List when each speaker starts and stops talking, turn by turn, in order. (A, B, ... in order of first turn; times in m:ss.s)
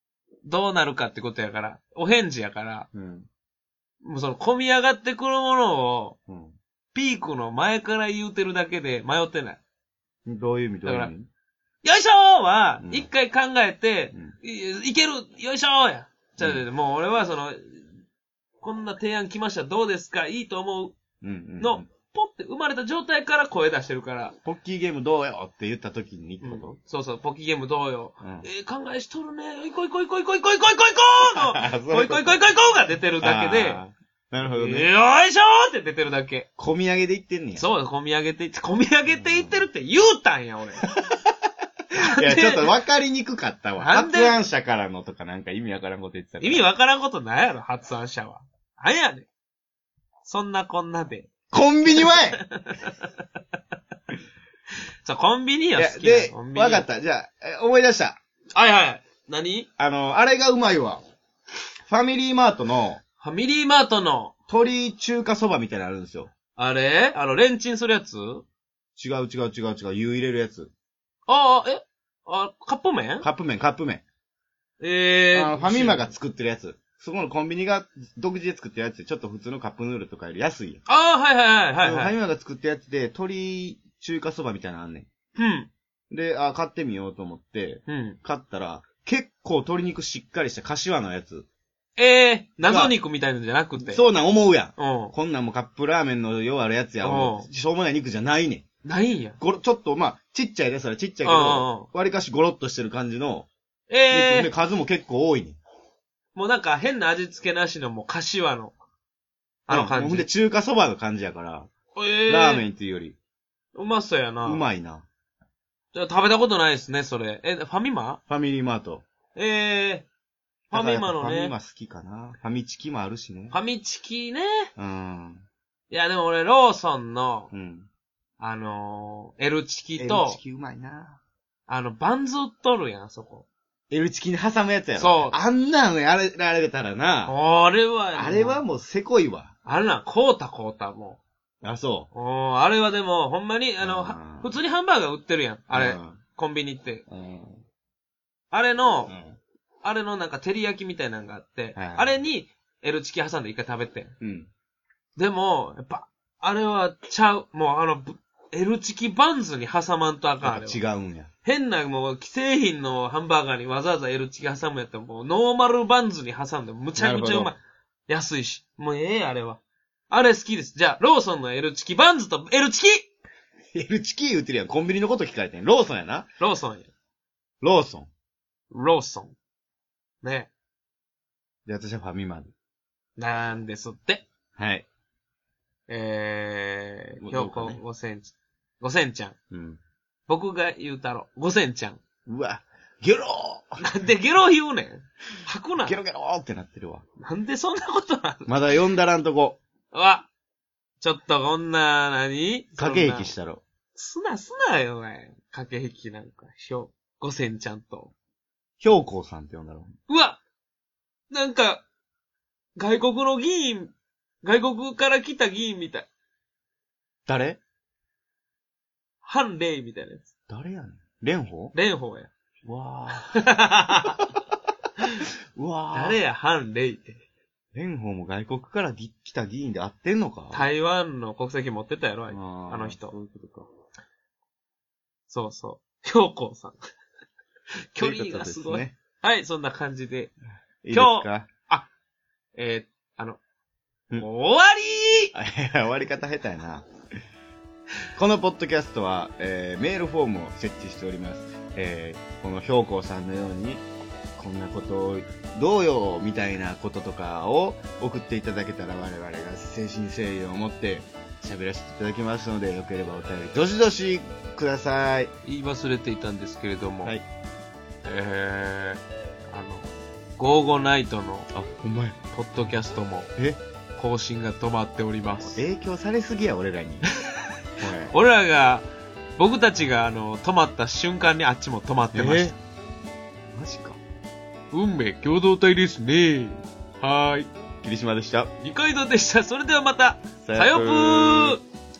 0:00.4-0:02.9 A
0:02.9-0:03.3 B
0:04.0-0:06.2 A
0:06.3-0:06.6 B
0:06.9-0:09.6 A
0:10.2-0:11.3 B
0:10.8-0:11.1 A
0:11.8-0:17.8 A
0:12.8-0:13.1 B
0:16.4-0:16.6 B
0:18.6-0:21.0 A
0:21.2-0:21.8 B
0:21.6-0:24.4 A
0:24.4-0:26.8 B
0:26.4-0:36.5 A
0:28.2-0:28.5 B
0:31.3-0:32.4 B
0:33.2-0:34.9 B
0:36.6-0:37.7 B
0:37.6-0:40.8 A
0:39.1-0:39.6 B
0:40.8-0:41.3 B
0:42.0-0:42.7 A
0:42.0-0:46.6 B
0:43.8-0:44.4 A
0:46.4-0:49.3 A
0:50.2-0:51.3 A
0:51.5-0:52.4 B
0:51.9-0:53.1 A
0:55.0-0:56.9 A
0:55.8-0:58.2 B
0:58.5-0:59.7 A
0:59.8-1:01.0 B
1:01.9-1:03.0 B
1:03.2-1:04.3 A
1:04.5-1:06.3 B
1:06.5-1:08.4 A
1:09.0-1:10.7 B
1:11.3-1:13.3 A
1:13.2-1:14.0 B
1:14.8-1:16.1 A
1:15.3-1:20.8 B
1:20.9-1:22.1 A
1:21.8-1:25.1 B
1:25.4-1:25.7 A
1:26.1-1:31.5 B
1:27.9-1:28.2 A
1:32.0-1:34.0 A
1:32.6-1:33.0 B
1:33.8-1:38.6 B
1:34.8-1:35.1 A
1:37.0-1:37.5 A
1:38.8-1:39.4 A
1:39.4-1:43.5 B
1:41.2-1:41.9 A
1:43.9-1:44.5 A
1:44.1-1:45.6 B
1:46.3-1:48.7 A
1:49.7-1:50.3 A
1:49.7-1:51.7 B
1:51.9-1:52.7 A
1:52.3-1:53.2 B
1:53.7-1:54.6 A
1:54.4-1:55.0 B
1:55.9-1:58.2 A
1:58.3-1:59.0 B
1:59.3-2:00.1 A
2:00.7-2:01.5 A
2:00.7-2:03.6 B
2:03.5-2:04.7 A
2:04.8-2:05.4 B
2:05.9-2:07.5 A
2:07.5-2:07.9 B
2:08.4-2:10.4 A
2:10.0-2:11.2 B
2:11.7-2:13.4 A
2:13.9-2:17.4 B
2:15.0-2:15.4 A
2:17.3-2:18.6 A
2:18.1-2:19.5 B
2:19.6-2:21.2 A
2:21.6-2:22.1 B
2:22.1-2:27.0 A
2:23.8-2:24.6 B
2:25.7-2:26.2 B
2:27.1-2:27.6 B
2:28.5-2:29.1 A
2:29.1-2:29.4 B
2:29.8-2:34.1 A
2:31.8-2:32.2 B
2:34.2-2:34.5 B
2:35.2-2:40.8 A
2:40.4-2:41.3 B
2:41.4-2:53.1 A
2:46.9-2:47.5 B
2:53.7-2:56.3 B
2:56.4-2:56.9 A
2:57.6-2:58.1 B
2:58.7-2:59.4 A
3:00.2-3:00.5 A
3:01.6-3:02.5 B
3:03.2-3:04.2 A
3:04.6-3:04.9 B
3:05.9-3:09.4 A
3:07.2-3:07.8 B
3:09.5-3:09.8 B
3:10.3-3:12.0 A
3:12.2-3:13.8 B
3:13.8-3:16.0 A
3:15.8-3:17.0 B
3:17.2-3:18.5 A
3:18.5-3:19.6 B
3:19.9-3:20.3 A
3:21.0-3:23.3 A
3:22.8-3:23.6 B
3:23.9-3:28.1 A
3:28.8-3:29.9 B
3:30.1-3:30.4 A
3:31.3-3:31.8 A
3:32.8-3:36.1 A
3:37.2-3:37.6 B
3:39.2-3:40.2 A
3:40.5-3:41.7 B
3:41.7-3:44.2 A
3:45.5-3:46.2 B
3:45.9-3:47.2 A
3:47.7-3:50.7 B
3:50.5-3:53.1 A
3:52.3-3:53.7 B
3:55.3-3:56.8 A
3:57.9-4:00.3 A
3:58.0-3:59.0 B
4:00.8-4:01.5 B
4:00.9-4:01.9 A
4:02.6-4:03.4 A
4:04.2-4:05.3 A
4:05.3-4:06.9 B
4:08.2-4:13.8 B
4:14.4-4:25.3 B
4:25.4-4:27.2 A
4:28.0-4:31.5 A
4:31.5-4:32.2 B
4:32.3-4:33.3 A
4:34.0-4:35.6 A
4:35.4-4:37.0 B
4:37.8-4:38.1 B
4:38.1-4:38.8 A
4:39.4-4:42.5 A
4:42.1-4:42.6 B
4:43.5-4:44.0 B
4:44.7-4:47.5 A
4:47.8-4:48.5 B
4:48.6-4:51.6 A
4:50.4-4:51.6 B